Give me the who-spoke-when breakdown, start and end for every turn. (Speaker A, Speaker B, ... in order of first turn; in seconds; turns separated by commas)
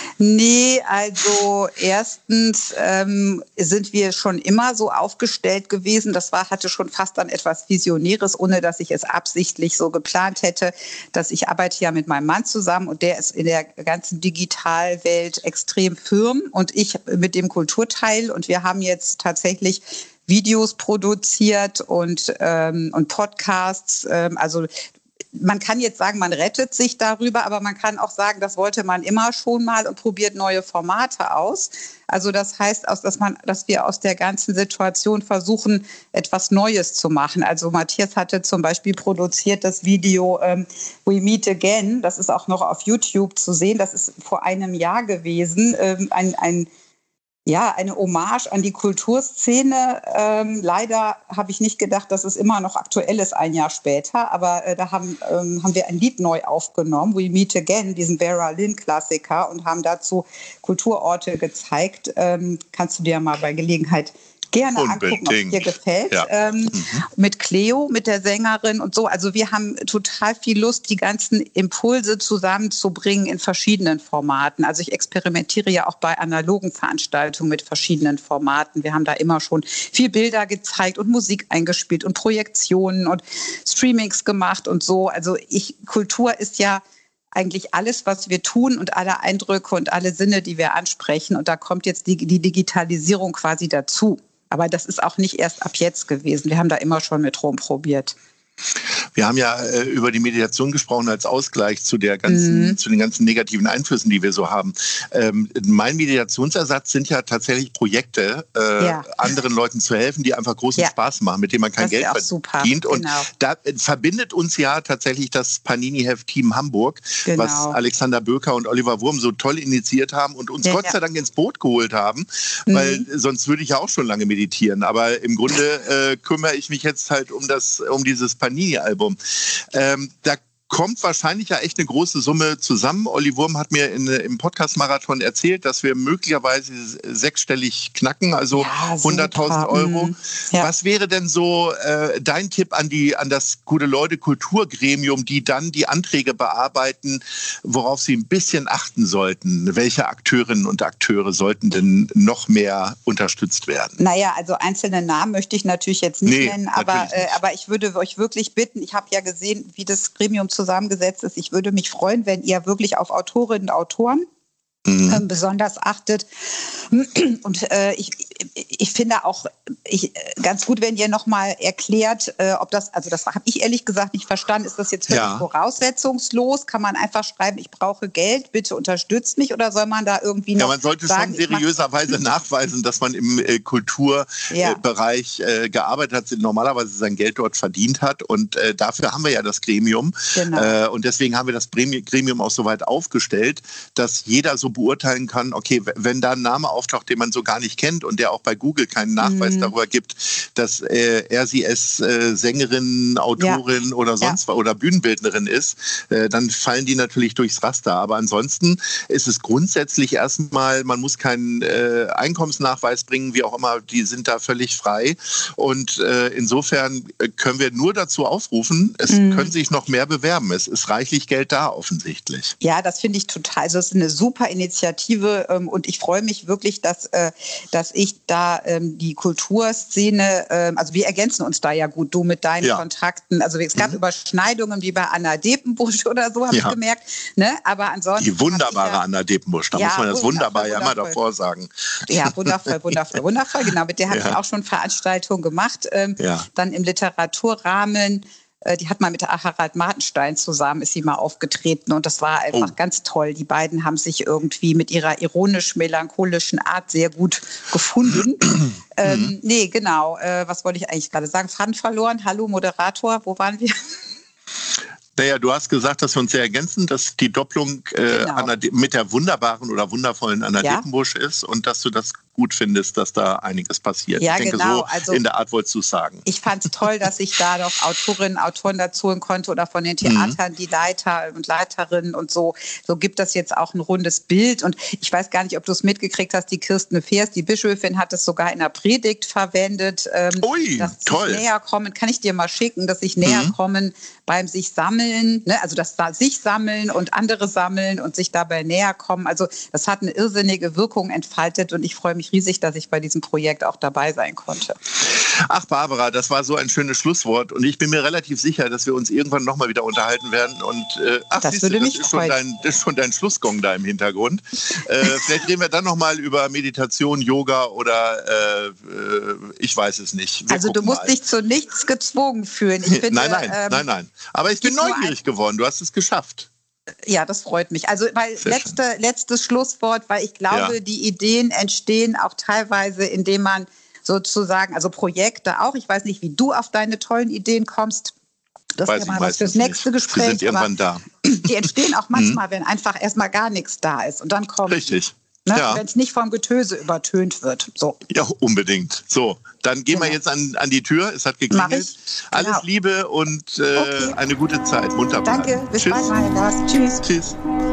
Speaker A: 0.2-24.7, Speaker A: 25.3-46.7, Speaker A: 47.5-86.8, Speaker B: 64.7-67.0, Speaker A: 87.3-98.1, Speaker B: 99.2-154.0, Speaker A: 102.2-102.8, Speaker A: 108.8-109.2, Speaker A: 111.8-113.3, Speaker A: 117.2-117.8, Speaker A: 120.6-120.9, Speaker A: 122.7-123.0, Speaker A: 138.5-140.7, Speaker A: 154.0-164.2, Speaker B: 156.2-157.4, Speaker B: 164.8-165.2, Speaker A: 165.1-181.7, Speaker B: 175.1-175.4, Speaker B: 180.6-222.5, Speaker A: 184.5-184.8, Speaker A: 190.3-190.7, Speaker A: 199.2-199.7, Speaker A: 219.1-219.5, Speaker A: 222.6-239.0, Speaker B: 238.2-242.6, Speaker A: 239.7-241.2, Speaker A: 242.1-263.7, Speaker B: 244.1-244.4, Speaker B: 246.2-246.4, Speaker B: 259.0-259.3, Speaker B: 265.1-276.2, Speaker A: 268.1-268.5, Speaker A: 274.2-275.2, Speaker A: 276.2-304.8, Speaker B: 280.0-280.4, Speaker B: 290.4-291.4, Speaker B: 293.2-293.5, Speaker B: 305.1-321.1, Speaker A: 311.4-312.4, Speaker A: 320.5-323.9, Speaker B: 322.9-326.5, Speaker A: 324.6-325.1, Speaker A: 327.1-338.1, Speaker B: 328.4-328.8, Speaker B: 330.5-330.8, Speaker A: 338.8-340.7, Speaker B: 338.9-341.5, Speaker A: 341.2-348.0, Speaker B: 342.1-342.4, Speaker B: 344.7-345.8, Speaker B: 348.1-356.2, Speaker A: 349.9-350.2, Speaker A: 351.5-352.6, Speaker A: 353.8-354.1, Speaker A: 355.2-357.0, Speaker B: 357.0-357.4